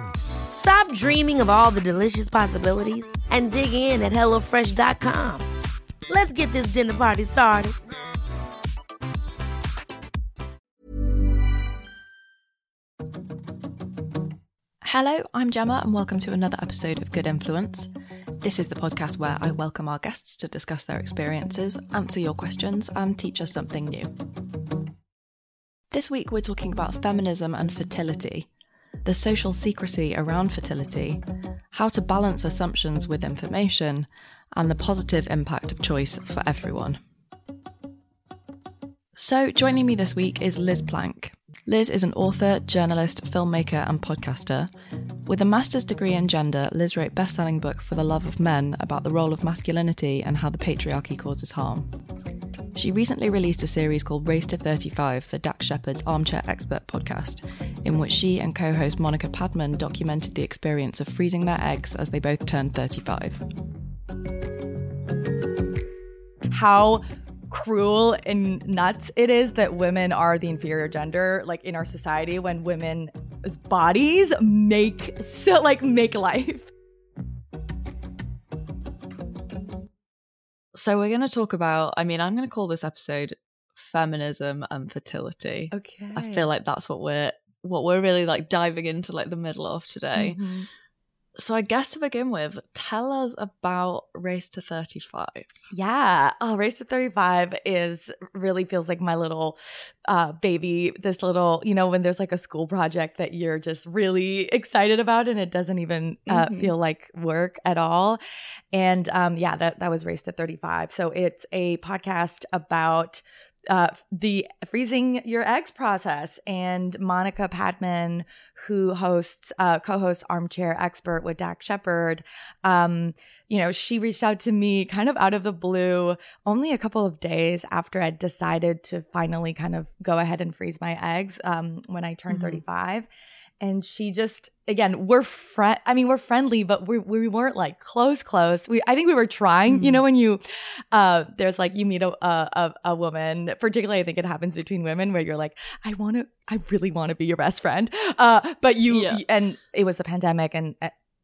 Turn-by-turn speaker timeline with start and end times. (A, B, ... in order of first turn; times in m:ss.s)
0:00.5-0:05.5 A
0:06.1-0:07.8 A
0:14.8-0:17.9 B
0:18.4-0:24.1 B
0:25.9-0:28.5 B
0:29.0-0:31.2 B
0:31.7-0:37.0 B
0:39.2-0:44.7 B
0:45.3-0:51.9 B
0:52.8-1:03.4 B
1:06.5-1:16.7 C
1:20.7-1:30.4 B
1:25.7-1:26.5 C
1:30.2-1:30.7 C
1:31.4-1:35.6 B
1:35.7-1:48.2 C
1:46.3-1:46.7 B
1:48.7-2:13.1 C
2:12.3-2:12.6 B
2:13.6-2:30.9 C
2:19.7-2:20.0 B
2:28.9-2:29.2 B